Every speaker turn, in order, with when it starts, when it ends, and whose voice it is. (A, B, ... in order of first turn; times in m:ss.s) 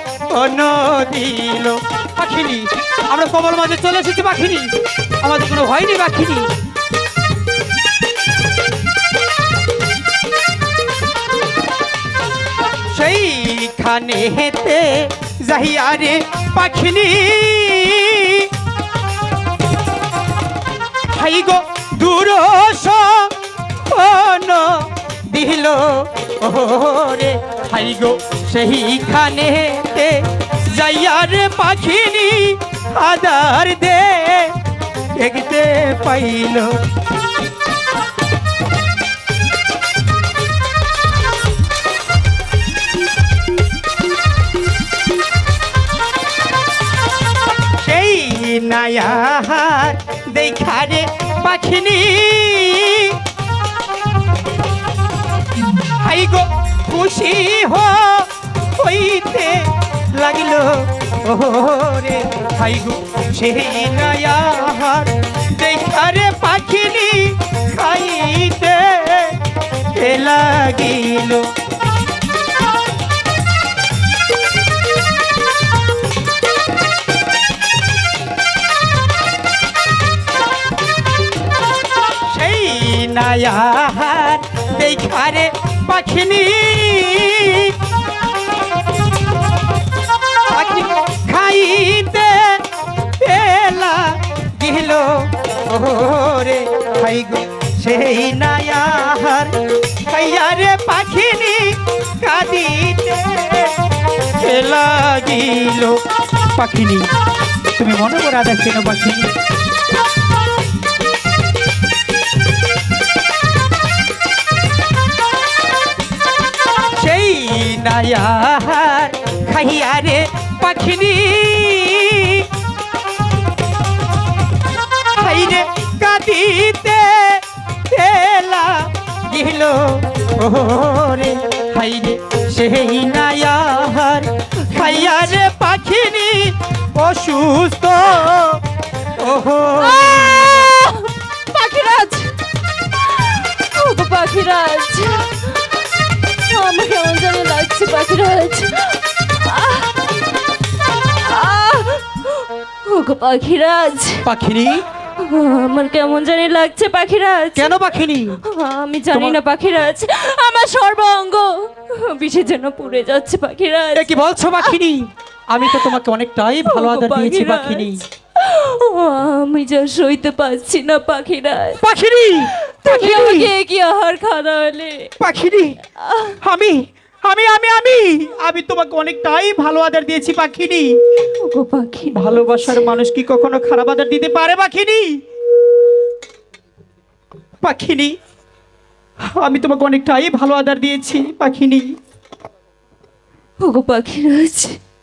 0:00.3-0:06.5 A
0:12.9-0:18.5 A
0:21.1-0:23.3 A
0:23.9-0:34.5 A
0:35.2-0:36.7 A
0:47.8-0:53.2 A
0:55.9-1:09.4 A
1:09.9-1:11.5 A
1:22.2-1:27.8 A
1:30.5-1:32.6 A
1:33.2-1:43.8 A
1:44.4-1:46.0 A
1:46.5-1:47.1 A
1:47.7-1:49.3 A
1:57.0-2:02.5 A
2:05.2-2:18.6 A
2:14.8-2:15.2 B
2:19.2-2:20.6 A
2:19.8-2:29.9 B
2:31.0-2:34.3 B
2:34.2-2:34.8 A
2:35.2-2:37.8 B
2:37.6-2:38.4 A
2:38.4-2:44.7 B
2:39.1-2:39.4 A
2:43.9-2:48.0 A
2:46.7-2:51.8 B
2:51.8-2:53.5 A
2:52.8-2:55.2 B
2:55.2-2:55.8 A
2:56.0-2:56.4 B
2:56.4-3:00.9 A
3:01.4-3:03.0 B
3:02.1-3:05.2 A
3:07.6-3:08.1 A
3:09.4-3:11.9 A
3:13.6-3:14.8 B